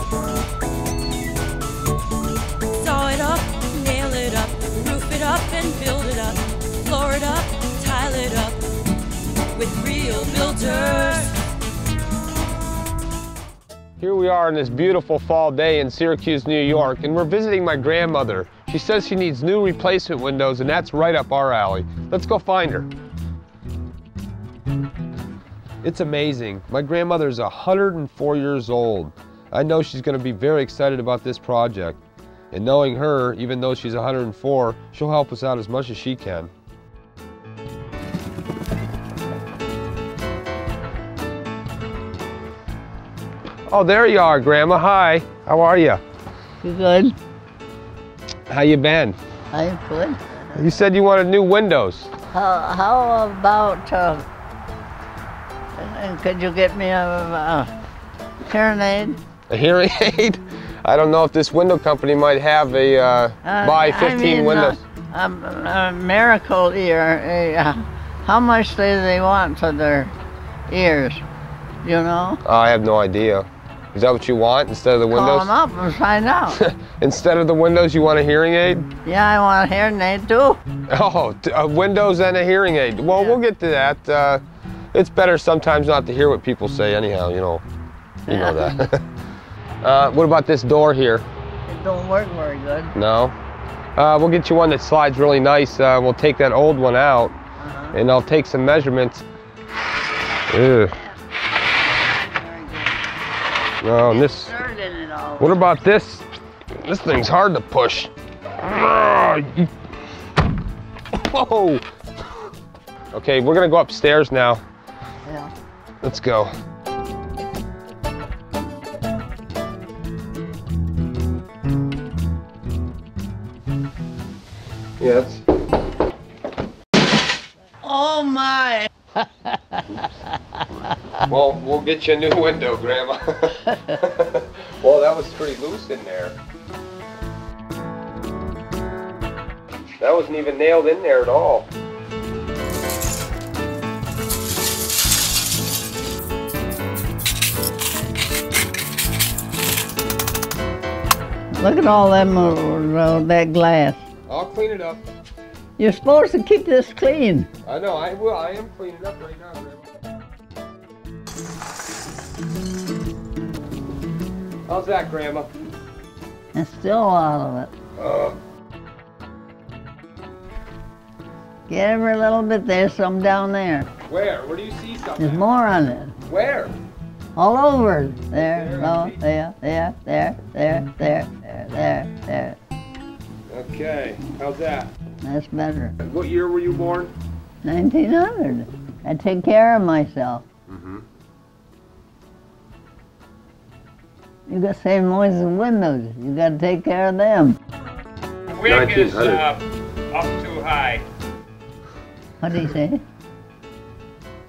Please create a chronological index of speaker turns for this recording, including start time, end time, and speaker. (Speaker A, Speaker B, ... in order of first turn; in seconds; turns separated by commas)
Speaker A: 2.7-8.6, Speaker A: 9.5-11.3, Speaker B: 14.0-22.9, Speaker B: 25.8-32.0, Speaker B: 32.5-36.5, Speaker B: 43.7-46.0, Speaker C: 46.6-47.1, Speaker B: 48.5-49.2, Speaker C: 49.5-50.7, Speaker B: 50.5-52.1, Speaker C: 52.3-54.2, Speaker C: 55.7-57.7, Speaker C: 58.5-59.2, Speaker B: 59.5-64.8, Speaker C: 63.4-70.1, Speaker C: 70.7-71.2, Speaker C: 71.8-72.4, Speaker B: 72.4-75.5, Speaker C: 75.1-76.6, Speaker B: 76.5-78.9, Speaker C: 78.9-80.6, Speaker B: 80.9-84.4, Speaker C: 83.1-83.4, Speaker B: 84.9-87.6, Speaker B: 88.3-89.0, Speaker C: 88.3-88.8, Speaker B: 89.8-91.3, Speaker C: 91.7-92.9, Speaker B: 92.9-93.3, Speaker B: 94.0-97.3, Speaker C: 97.6-98.0, Speaker B: 97.9-99.2, Speaker B: 100.5-101.0, Speaker C: 102.0-103.0, Speaker B: 103.8-104.5, Speaker C: 104.1-105.6, Speaker B: 105.4-109.7, Speaker B: 111.1-111.8, Speaker B: 113.1-114.6, Speaker C: 115.2-115.5, Speaker B: 116.0-116.5, Speaker B: 125.0-125.4, Speaker C: 127.8-130.1, Speaker B: 131.2-136.4, Speaker C: 133.7-134.0, Speaker B: 140.0-141.7, Speaker C: 151.5-154.1, Speaker B: 154.3-155.0, Speaker C: 155.8-157.5, Speaker B: 157.6-159.9, Speaker B: 164.7-165.5, Speaker C: 166.5-167.7, Speaker B: 167.9-168.4, Speaker C: 171.7-173.9, Speaker B: 174.0-175.5, Speaker C: 175.2-176.2, Speaker B: 176.3-176.7, Speaker C: 177.3-182.6, Speaker B: 178.3-179.2, Speaker B: 183.5-184.9, Speaker C: 185.2-185.9, Speaker B: 186.0-187.1, Speaker C: 187.6-190.4, Speaker B: 190.7-191.0, Speaker C: 194.5-197.6, Speaker D: 198.5-201.0, Speaker B: 198.6-199.4, Speaker C: 202.4-203.0